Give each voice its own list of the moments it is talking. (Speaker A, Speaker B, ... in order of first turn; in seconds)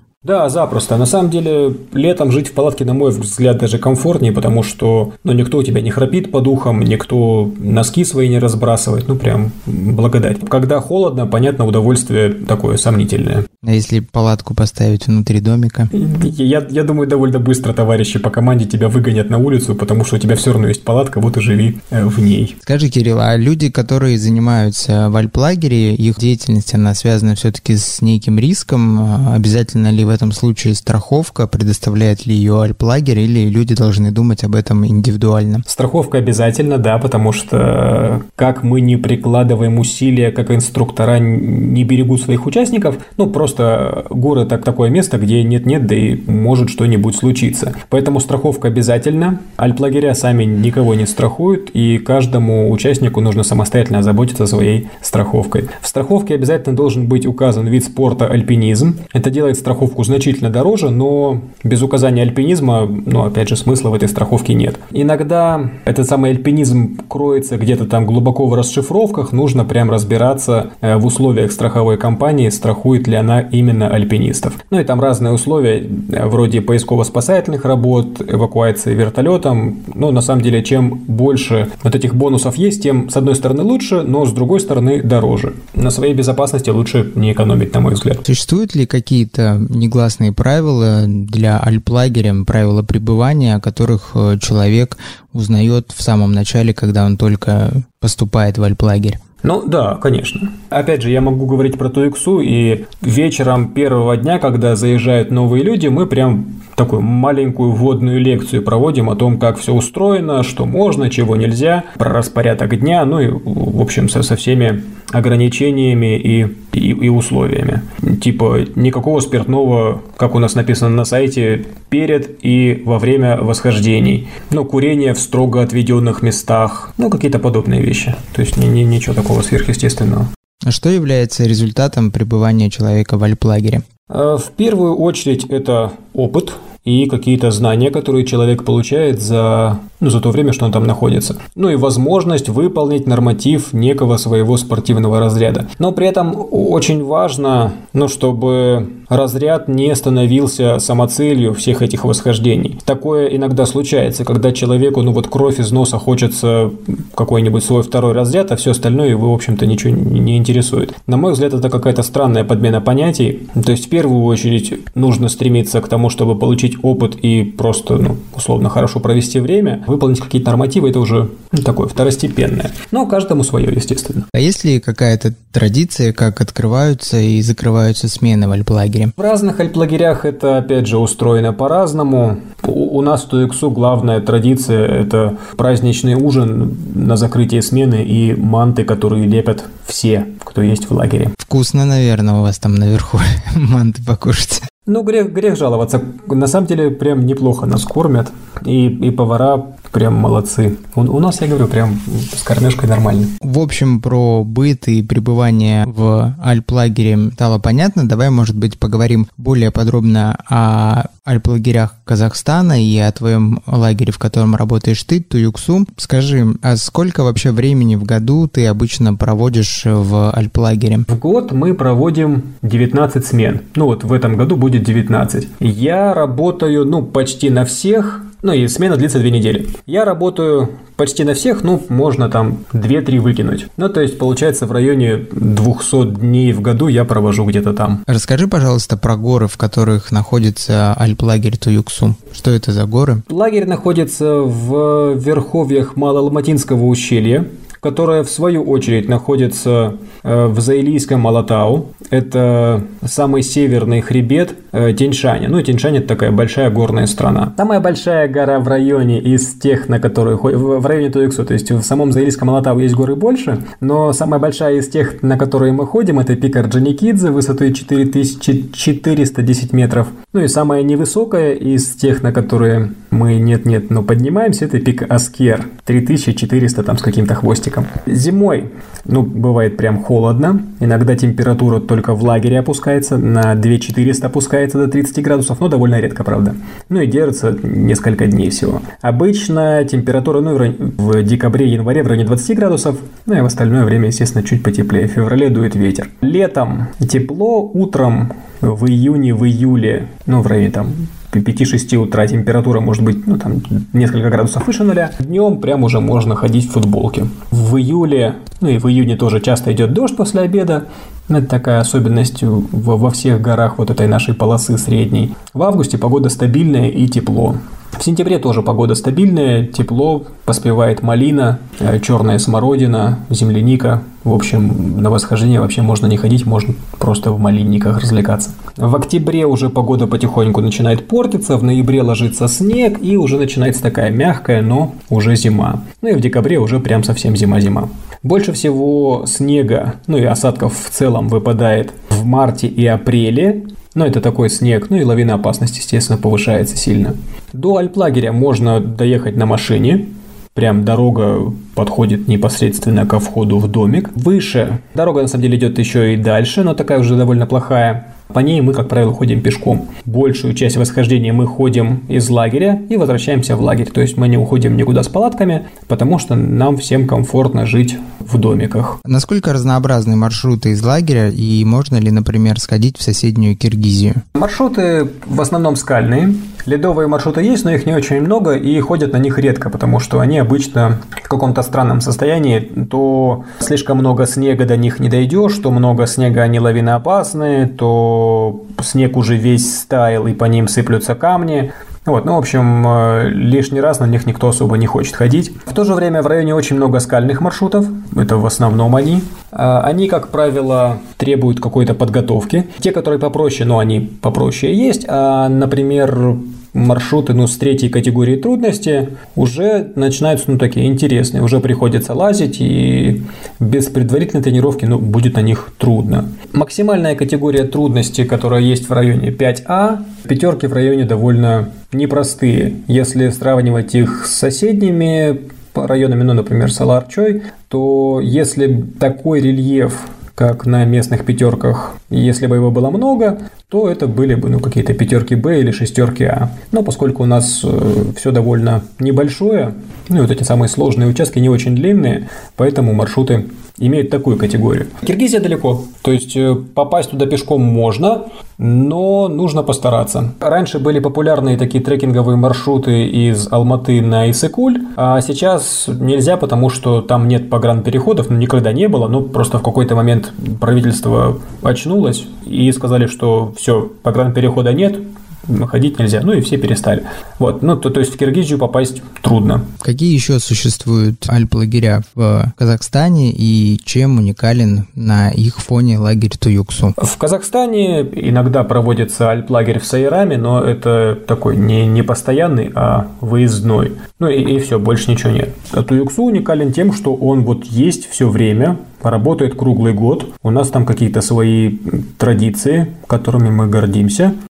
Speaker A: 0.2-13.5, 15.9-22.6, 35.7-88.2, 99.4-130.3, 134.1-174.3, 179.2-191.3, 194.8-203.3, 221.1-238.0, 243.3-369.0, 374.3-469.7, 477.0-494.3
Speaker B: 13.6-15.9, 22.6-35.6, 88.3-99.2, 130.6-133.8, 174.3-179.1, 191.4-194.7, 203.4-221.1, 238.1-243.2, 369.0-374.2, 469.8-476.9